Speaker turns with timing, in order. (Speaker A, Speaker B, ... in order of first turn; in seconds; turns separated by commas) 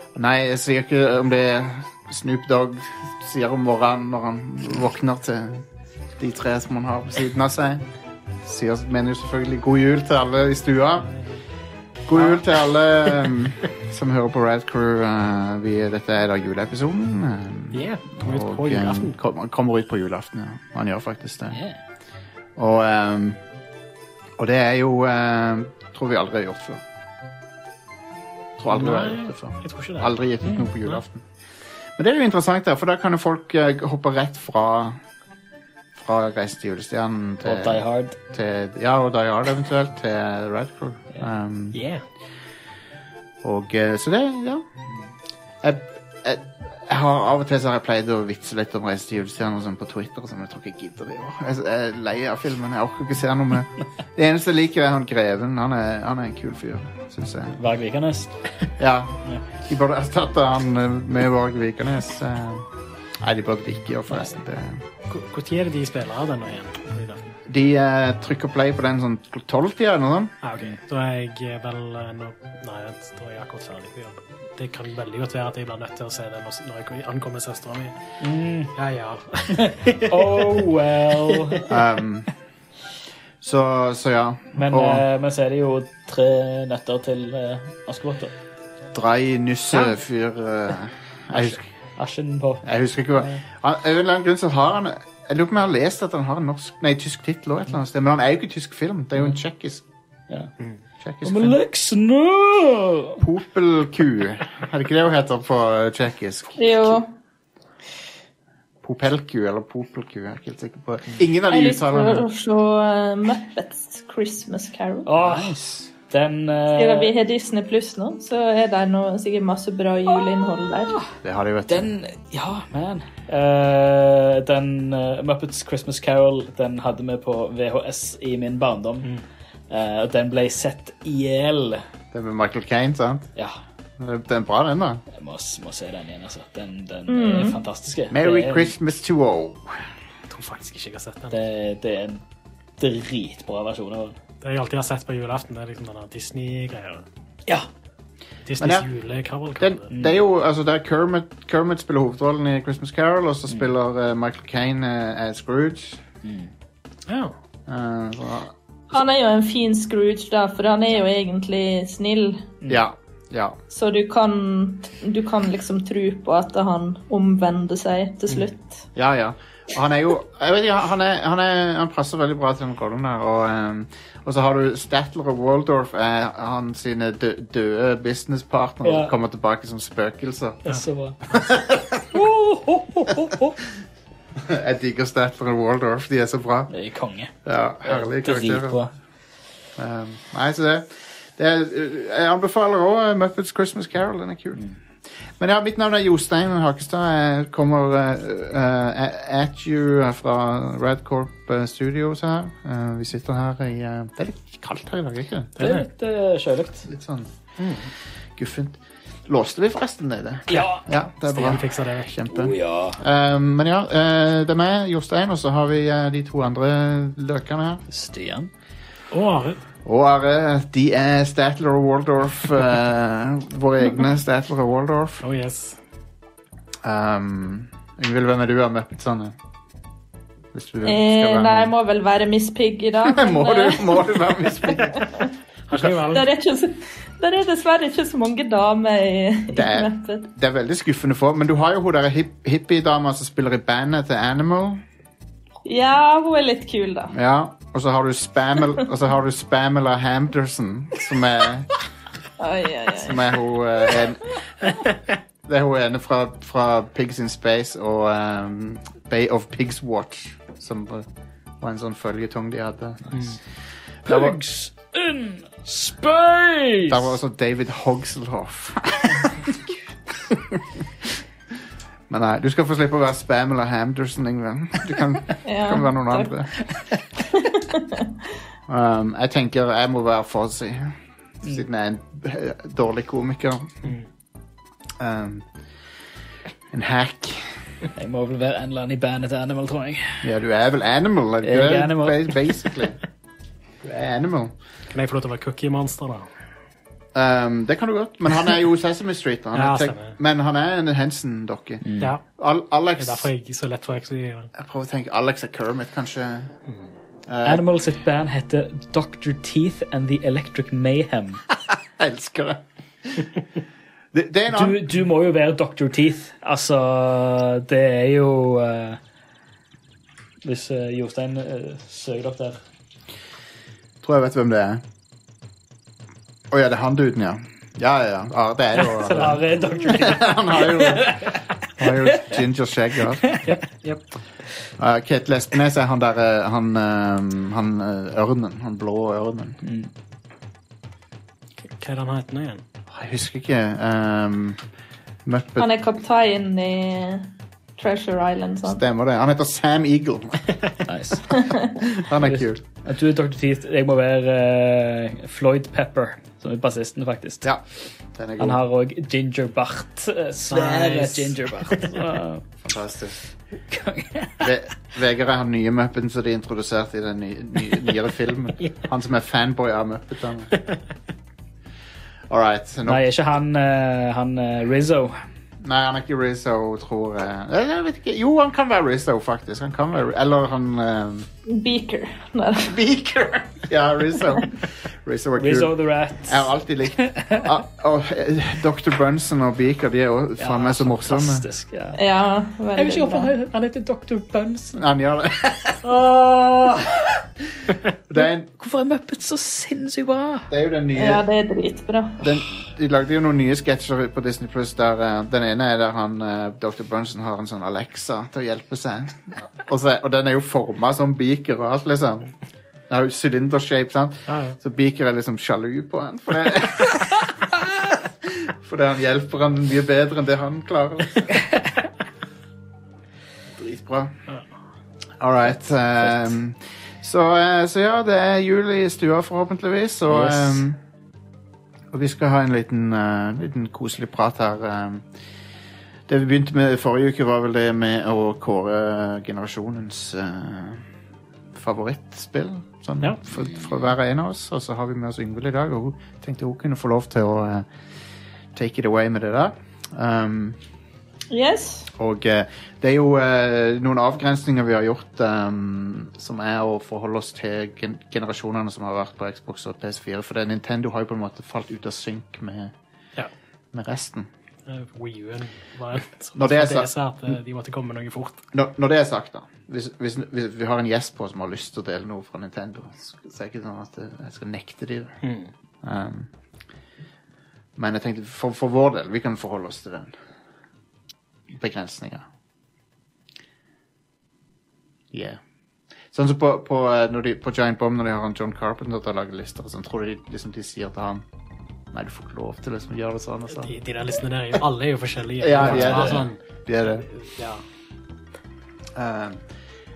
Speaker A: 0.1-5.6, Speaker A: 6.2-7.9, Speaker A: 8.4-11.1, Speaker A: 12.1-21.6, Speaker B: 12.1-12.4, Speaker B: 17.7-19.2, Speaker C: 21.5-21.8, Speaker A: 22.6-23.4, Speaker A: 24.4-26.8, Speaker A: 28.6-31.2, Speaker B: 28.7-30.1, Speaker C: 30.4-30.7, Speaker A: 32.0-35.0, Speaker A: 36.0-41.8, Speaker C: 37.4-38.2, Speaker B: 41.7-42.0, Speaker A: 43.4-44.6, Speaker A: 45.6-57.6, Speaker C: 57.6-58.6, Speaker A: 58.8-62.6, Speaker A: 63.2-64.8, Speaker B: 65.1-67.3, Speaker A: 67.5-70.3, Speaker B: 70.4-78.0, Speaker C: 78.2-78.7, Speaker B: 78.8-80.7, Speaker C: 79.9-81.7, Speaker B: 81.2-81.6, Speaker A: 81.7-82.3, Speaker A: 83.4-85.0, Speaker C: 84.6-88.3, Speaker A: 88.9-91.6, Speaker C: 91.3-93.4, Speaker A: 92.6-99.8, Speaker A: 101.0-101.6, Speaker C: 101.2-103.2, Speaker A: 103.2-107.0, Speaker D: 106.6-107.1, Speaker A: 108.8-112.2, Speaker D: 111.5-115.1, Speaker C: 115.1-117.1, Speaker A: 115.2-115.9, Speaker D: 116.8-121.0, Speaker A: 121.2-121.9, Speaker C: 121.7-129.1, Speaker C: 129.7-131.8, Speaker A: 132.1-133.3, Speaker A: 134.0-135.0, Speaker C: 135.2-138.7, Speaker D: 137.1-137.6, Speaker A: 138.1-139.8, Speaker B: 140.3-141.4, Speaker C: 141.3-142.2, Speaker C: 142.8-144.2, Speaker B: 144.4-147.1, Speaker B: 148.5-149.9, Speaker A: 148.6-148.9, Speaker A: 149.6-156.0, Speaker C: 149.9-150.2, Speaker C: 156.2-156.5, Speaker B: 157.1-157.3, Speaker A: 157.7-158.5, Speaker D: 158.9-162.5, Speaker A: 162.7-163.6, Speaker D: 163.7-168.8, Speaker A: 169.0-180.6, Speaker C: 178.8-179.1, Speaker C: 180.7-181.2, Speaker A: 181.3-182.1, Speaker C: 182.1-183.6, Speaker A: 184.4-186.7, Speaker C: 186.7-187.3, Speaker A: 187.4-188.8, Speaker C: 187.8-188.9, Speaker A: 189.8-194.6, Speaker A: 195.4-205.5, Speaker C: 205.6-206.9, Speaker B: 205.6-205.9, Speaker A: 206.9-207.3, Speaker B: 207.6-207.9, Speaker A: 208.4-217.8, Speaker C: 210.5-210.8, Speaker B: 210.5-212.2, Speaker C: 212.3-213.0, Speaker C: 217.9-218.5, Speaker B: 219.1-219.6, Speaker A: 219.8-225.2, Speaker B: 225.2-225.8, Speaker A: 226.8-229.3, Speaker A: 230.5-231.7, Speaker D: 230.8-234.1, Speaker A: 233.1-235.0, Speaker D: 234.9-235.2, Speaker B: 235.7-236.3, Speaker A: 235.7-236.0, Speaker D: 236.1-240.3, Speaker A: 239.5-244.8, Speaker D: 245.7-247.1, Speaker A: 247.1-251.7, Speaker D: 252.4-253.2, Speaker A: 252.9-254.3, Speaker A: 255.4-261.1, Speaker A: 261.6-263.2, Speaker A: 264.1-264.4, Speaker C: 264.1-267.1, Speaker A: 266.9-269.5, Speaker A: 270.3-270.6, Speaker A: 272.1-276.5, Speaker D: 275.4-276.3, Speaker D: 277.4-278.1, Speaker A: 278.7-283.9, Speaker A: 285.0-285.5, Speaker A: 286.7-287.6, Speaker C: 287.9-290.3, Speaker A: 290.2-293.0, Speaker C: 291.4-292.7, Speaker A: 293.8-294.5, Speaker B: 294.9-296.3, Speaker A: 297.1-301.8, Speaker B: 299.6-300.2, Speaker C: 301.8-302.1, Speaker A: 302.4-303.3, Speaker B: 303.0-304.5, Speaker A: 304.6-306.5, Speaker A: 307.3-307.6, Speaker C: 307.4-311.4, Speaker A: 311.7-313.2, Speaker A: 314.1-314.8, Speaker C: 314.5-319.0, Speaker C: 320.4-322.6, Speaker A: 324.0-324.8, Speaker A: 326.5-333.2, Speaker C: 328.8-332.4, Speaker C: 333.3-333.5, Speaker B: 333.4-334.0, Speaker A: 334.8-339.6, Speaker C: 339.6-339.9, Speaker B: 341.6-342.6, Speaker A: 342.9-344.6, Speaker A: 345.2-345.7, Speaker D: 345.6-348.8, Speaker A: 348.7-350.4, Speaker C: 350.9-351.4, Speaker A: 351.8-352.6, Speaker C: 352.2-357.5, Speaker A: 358.1-358.6, Speaker C: 358.4-362.4, Speaker B: 360.5-361.9, Speaker A: 362.6-363.2, Speaker C: 363.7-364.5, Speaker A: 364.4-370.5, Speaker A: 372.3-373.0, Speaker C: 372.9-375.2, Speaker A: 375.6-381.3, Speaker D: 381.5-382.8, Speaker A: 382.6-385.7, Speaker C: 385.4-386.5, Speaker A: 386.2-391.4, Speaker C: 387.0-387.5, Speaker C: 390.4-392.0, Speaker D: 391.9-393.3, Speaker C: 392.8-394.8, Speaker A: 394.7-395.8, Speaker C: 395.8-397.2, Speaker A: 398.1-398.5, Speaker C: 398.1-400.5, Speaker A: 400.5-401.2, Speaker D: 400.9-402.3, Speaker A: 402.2-412.3, Speaker A: 412.9-421.3, Speaker B: 414.3-414.6, Speaker A: 423.6-424.1, Speaker A: 425.2-430.8, Speaker C: 426.0-426.3, Speaker C: 430.1-430.6, Speaker A: 431.9-435.1, Speaker A: 436.1-440.9, Speaker A: 441.5-447.7, Speaker A: 448.6-450.6, Speaker D: 451.3-451.9, Speaker A: 452.0-462.7, Speaker A: 463.7-464.3, Speaker B: 464.7-468.4, Speaker A: 466.4-466.9, Speaker A: 468.5-475.1, Speaker B: 475.2-475.5, Speaker A: 475.8-476.3, Speaker A: 477.8-480.1, Speaker A: 481.5-482.2, Speaker A: 485.1-485.4, Speaker A: 486.1-491.2, Speaker A: 491.9-493.8, Speaker B: 493.5-497.6, Speaker A: 495.4-497.1, Speaker C: 495.6-496.2, Speaker A: 498.9-499.4